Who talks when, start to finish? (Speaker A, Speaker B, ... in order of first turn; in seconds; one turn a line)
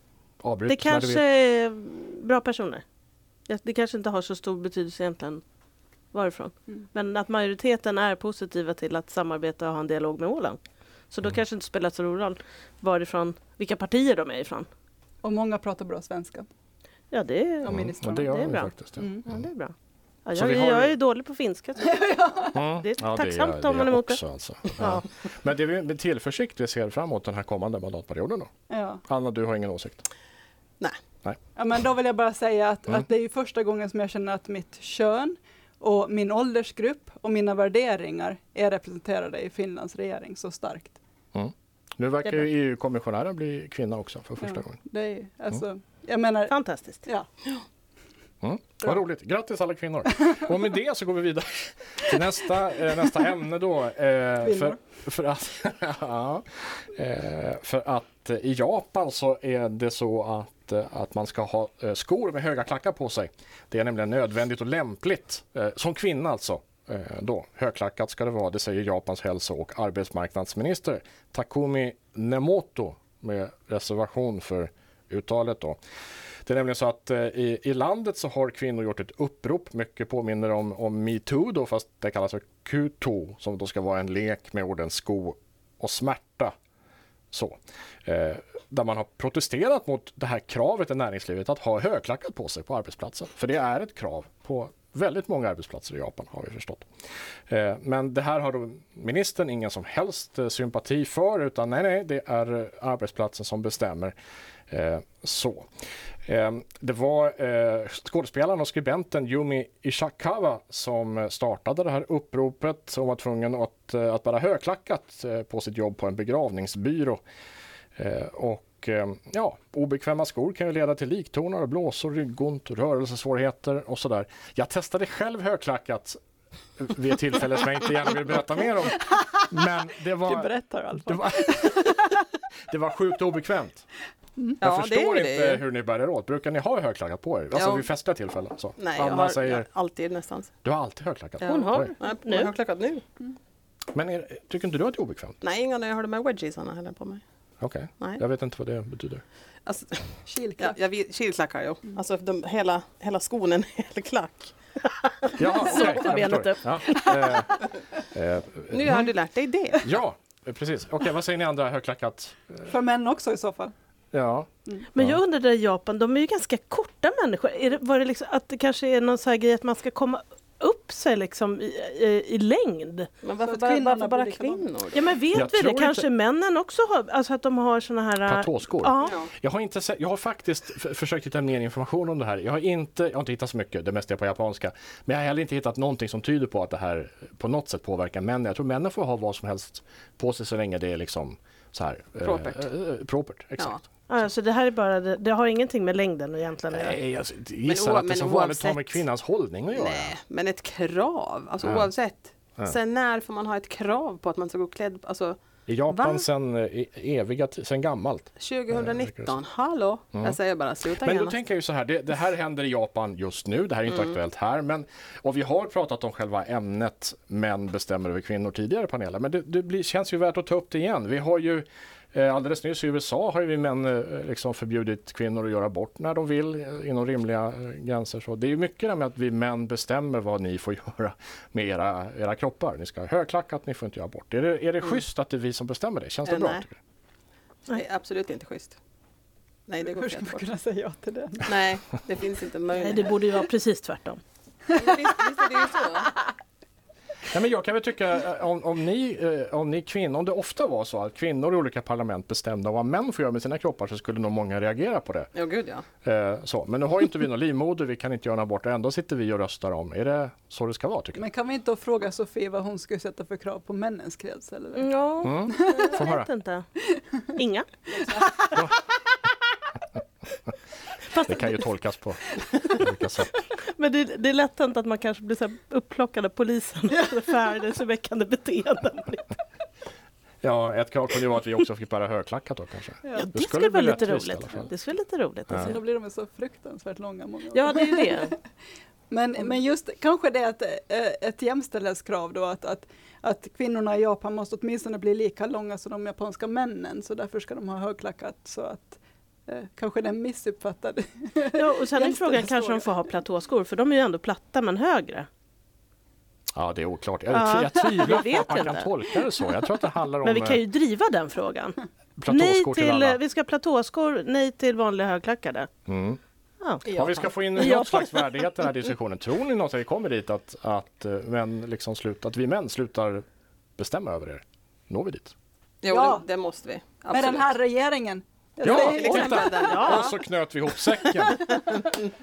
Speaker A: 0.4-1.2
Speaker B: 0.7-2.8
Speaker B: 3.5-5.4
Speaker B: 6.1-10.6
Speaker B: 11.1-14.7
Speaker C: 15.2-16.5
Speaker B: 17.1-18.7
Speaker C: 17.6-18.4
Speaker A: 17.6-19.4
Speaker C: 19.0-19.3
Speaker B: 19.3-19.7
Speaker B: 20.3-22.0
Speaker A: 20.3-20.9
Speaker C: 21.8-22.6
Speaker A: 22.5-28.5
Speaker B: 22.8-24.2
Speaker B: 24.8-25.1
Speaker C: 28.7-29.0
Speaker A: 29.1-30.1
Speaker C: 31.6-41.0
Speaker A: 41.3-44.8
Speaker C: 44.4-47.3
Speaker B: 46.5-47.0
Speaker A: 48.4-75.8
Speaker C: 54.4-54.8
Speaker A: 76.5-86.5
Speaker A: 87.3-96.8
Speaker A: 97.5-104.2
Speaker A: 104.7-105.7
Speaker A: 106.3-117.2
Speaker A: 118.0-126.2
Speaker A: 126.8-132.1
Speaker C: 130.2-132.1
Speaker A: 132.7-133.8
Speaker D: 134.6-135.6
Speaker A: 134.6-139.7
Speaker D: 137.5-137.9
Speaker D: 138.8-140.5
Speaker A: 140.6-141.9
Speaker D: 141.4-143.0
Speaker B: 141.4-142.5
Speaker A: 143.9-145.4
Speaker D: 145.4-147.2
Speaker A: 147.6-149.2
Speaker D: 149.7-150.0
Speaker C: 150.2-150.8
Speaker D: 150.6-155.0
Speaker A: 155.4-159.1
Speaker B: 155.4-157.3
Speaker D: 158.7-159.9
Speaker A: 159.8-162.7
Speaker C: 162.7-163.7
Speaker A: 164.1-165.2
Speaker B: 164.9-173.1
Speaker D: 173.2-175.1
Speaker C: 173.4-174.7
Speaker B: 174.9-179.2
Speaker A: 175.3-176.1
Speaker A: 178.2-193.9
Speaker D: 179.0-179.3
Speaker D: 192.2-192.6
Speaker B: 194.1-197.0
Speaker A: 196.7-200.2
Speaker D: 197.7-199.0
Speaker D: 199.7-205.4
Speaker A: 201.6-201.9
Speaker A: 205.7-209.3
Speaker D: 205.9-206.2
Speaker D: 208.4-211.4
Speaker A: 211.0-236.8
Speaker D: 236.3-236.6
Speaker D: 237.7-238.8
Speaker D: 239.7-240.5
Speaker C: 239.8-241.6
Speaker D: 241.5-243.2
Speaker B: 242.7-244.2
Speaker D: 244.7-246.1
Speaker A: 247.3-255.3
Speaker D: 255.4-255.8
Speaker A: 256.0-261.2
Speaker C: 261.2-264.9
Speaker B: 264.8-266.7
Speaker A: 265.2-266.3
Speaker C: 265.5-265.9
Speaker B: 267.3-268.5
Speaker B: 271.1-271.6
Speaker A: 271.3-273.3
Speaker B: 273.6-279.3
Speaker A: 280.4-284.7
Speaker C: 283.0-283.3
Speaker B: 283.1-285.8
Speaker C: 285.6-288.3
Speaker B: 287.5-288.4
Speaker C: 289.1-302.9
Speaker B: 301.5-305.3
Speaker A: 306.6-310.6
Speaker B: 307.3-308.9
Speaker B: 310.2-311.8
Speaker A: 312.2-313.2
Speaker B: 312.3-315.7
Speaker A: 315.9-316.2
Speaker B: 316.6-316.9
Speaker A: 316.9-323.2
Speaker D: 316.9-317.3
Speaker B: 317.6-318.3
Speaker A: 323.8-325.3
Speaker D: 325.8-327.5
Speaker C: 325.9-326.3
Speaker C: 327.1-329.3
Speaker A: 328.6-331.7
Speaker D: 328.6-330.2
Speaker B: 329.5-330.1